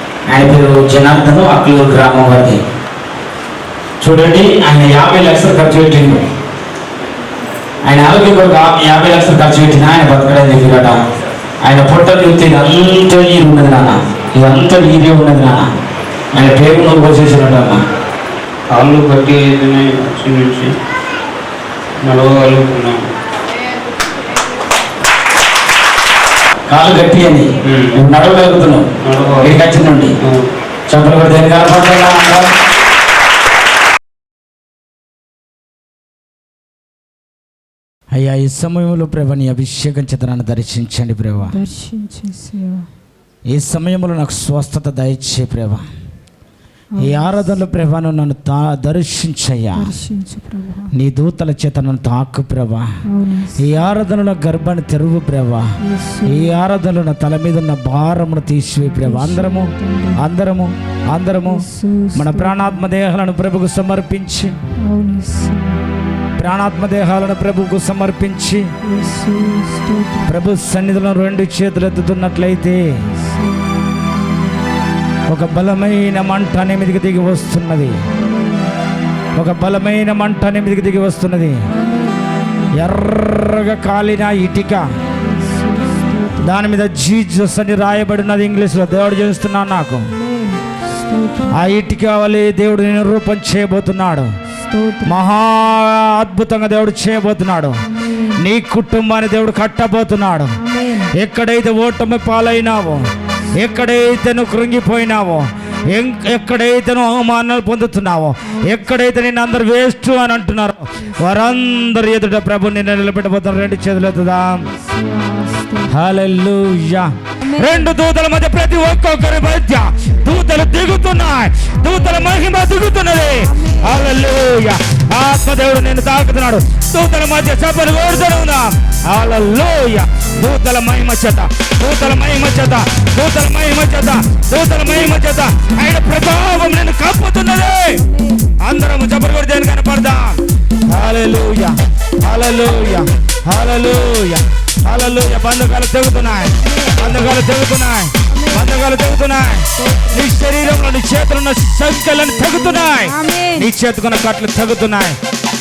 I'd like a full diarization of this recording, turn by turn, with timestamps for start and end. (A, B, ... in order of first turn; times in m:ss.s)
0:00.3-0:02.6 A
0:04.0-0:06.3 A
0:07.8-0:11.0 A
0:11.6-0:15.7 A
0:16.3-0:17.8 A
0:18.7-0:20.8 B
0:22.0-0:23.1 B
0:26.7-0:28.9 A
0:27.6-0:28.0 B
0:29.0-0:29.6 B
0:29.4-0:30.2 A
0:30.2-0:30.5 B
0:30.9-0:32.5 A
0:38.1-0:41.6 A
0:41.4-0:42.9 C
0:43.5-0:45.8 A
0:46.9-0:47.5 C
0:47.0-0:49.9 A
0:49.8-0:50.9 C
0:50.9-0:52.9 A
0:53.1-0:53.7 C
0:53.6-0:55.7 A
0:55.8-0:56.5 C
0:56.3-1:04.6 A
0:58.8-1:00.2 C
1:01.4-1:02.8 C
1:04.8-1:05.8 C
1:06.4-1:08.7 A
1:08.8-1:10.3 C
1:10.2-1:12.8 A
1:13.0-1:14.1 C
1:15.3-1:18.0 A
1:18.1-1:18.7 C
1:19.4-1:21.6 A
1:21.7-1:22.8 C
1:22.7-1:24.8 A
1:25.1-1:26.5 C
1:26.4-1:30.1 A
1:30.1-1:31.7 C
1:31.5-1:34.3 A
1:34.5-1:35.2 C
1:35.0-1:37.8 A
1:37.9-1:38.4 C
1:38.4-1:40.5 A
1:40.6-1:41.1 C
1:41.1-1:54.6 A
1:43.5-1:43.9 C
1:48.5-1:48.9 C
1:51.0-1:52.0 C
1:54.7-1:56.0 C
1:55.9-2:18.0 A
1:57.4-1:58.0 C
2:01.8-2:02.4 C
2:03.4-2:04.2 C
2:18.0-2:18.5 C
2:18.6-2:35.2 A
2:26.5-2:27.3 C
2:28.3-2:28.8 C
2:29.8-2:30.3 C
2:32.2-2:33.7 C